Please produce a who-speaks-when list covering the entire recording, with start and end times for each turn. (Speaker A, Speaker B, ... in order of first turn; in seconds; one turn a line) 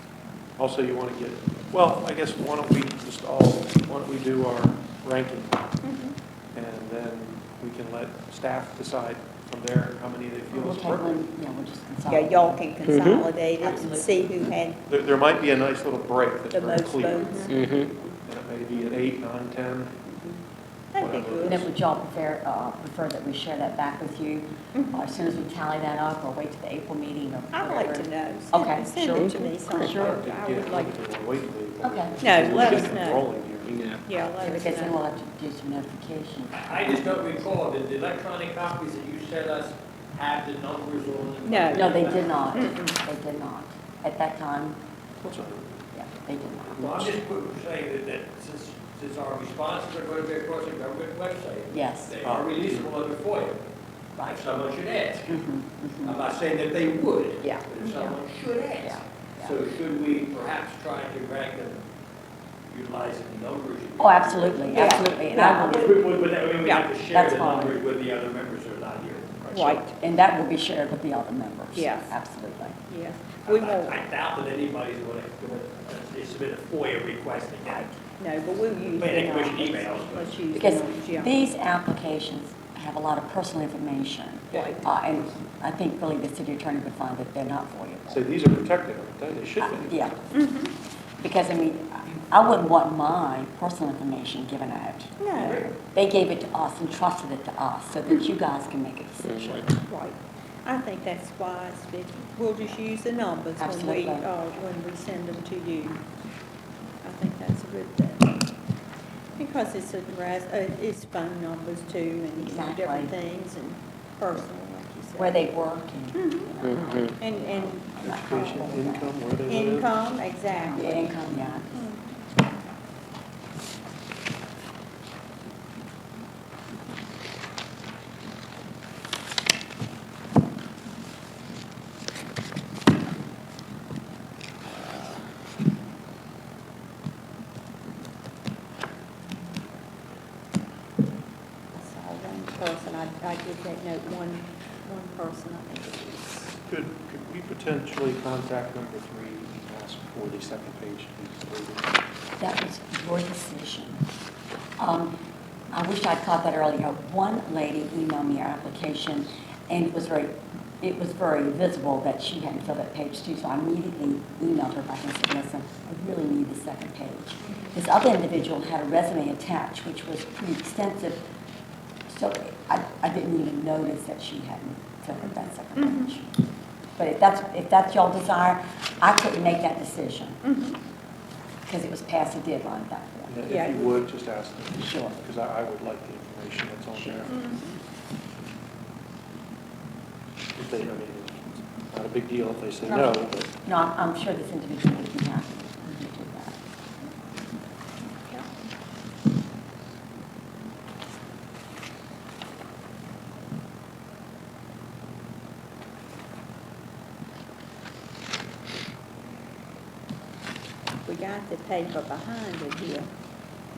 Speaker A: 0.6-5.7
Speaker B: 5.8-6.2
Speaker A: 6.5-11.2
Speaker C: 10.5-12.7
Speaker B: 12.1-14.8
Speaker D: 12.8-13.3
Speaker C: 13.6-14.3
Speaker A: 14.9-20.0
Speaker B: 16.5-17.6
Speaker D: 17.5-17.9
Speaker B: 20.1-20.4
Speaker B: 20.9-21.7
Speaker A: 21.0-21.7
Speaker C: 21.4-30.2
Speaker B: 24.7-25.0
Speaker B: 27.5-31.0
Speaker D: 29.1-30.0
Speaker A: 30.0-33.8
Speaker C: 31.8-32.8
Speaker B: 32.2-33.4
Speaker D: 33.6-34.0
Speaker B: 34.0-35.0
Speaker C: 34.4-37.4
Speaker E: 36.5-42.5
Speaker B: 41.4-41.9
Speaker C: 41.7-44.8
Speaker B: 42.5-42.9
Speaker A: 45.2-45.8
Speaker C: 45.9-47.2
Speaker E: 46.8-53.6
Speaker C: 51.7-52.2
Speaker A: 52.2-52.9
Speaker E: 54.2-55.5
Speaker C: 55.3-56.2
Speaker E: 56.0-61.8
Speaker C: 57.4-57.7
Speaker B: 57.8-58.2
Speaker C: 58.8-59.6
Speaker E: 62.7-69.9
Speaker C: 64.0-66.0
Speaker B: 64.7-65.9
Speaker B: 66.6-66.9
Speaker C: 67.1-67.8
Speaker B: 69.5-69.9
Speaker C: 70.0-72.8
Speaker B: 71.7-72.2
Speaker B: 72.9-74.1
Speaker E: 73.5-77.9
Speaker B: 77.7-81.3
Speaker E: 78.8-80.3
Speaker C: 80.5-88.3
Speaker B: 84.5-84.8
Speaker A: 88.1-90.1
Speaker C: 89.6-90.2
Speaker B: 90.3-90.7
Speaker C: 91.2-99.7
Speaker B: 95.2-95.7
Speaker D: 99.2-99.7
Speaker B: 99.8-106.0
Speaker C: 103.6-104.3
Speaker B: 107.0-108.4
Speaker B: 109.4-115.5
Speaker C: 112.4-113.2
Speaker C: 115.2-119.2
Speaker B: 116.2-116.5
Speaker D: 116.6-117.2
Speaker B: 117.2-118.7
Speaker A: 118.0-120.1
Speaker B: 119.5-122.0
Speaker C: 120.7-121.7
Speaker B: 141.7-146.5
Speaker A: 146.7-152.0
Speaker C: 152.4-154.1
Speaker C: 154.8-155.2
Speaker C: 155.7-171.2
Speaker C: 172.1-176.4
Speaker B: 175.8-176.1
Speaker C: 177.0-180.4
Speaker B: 180.4-180.8
Speaker C: 181.7-183.5
Speaker A: 183.3-187.4
Speaker B: 183.5-184.0
Speaker C: 184.8-185.2
Speaker C: 186.9-187.7
Speaker B: 187.3-187.7
Speaker A: 190.6-193.5
Speaker C: 192.9-196.6
Speaker B: 211.1-213.1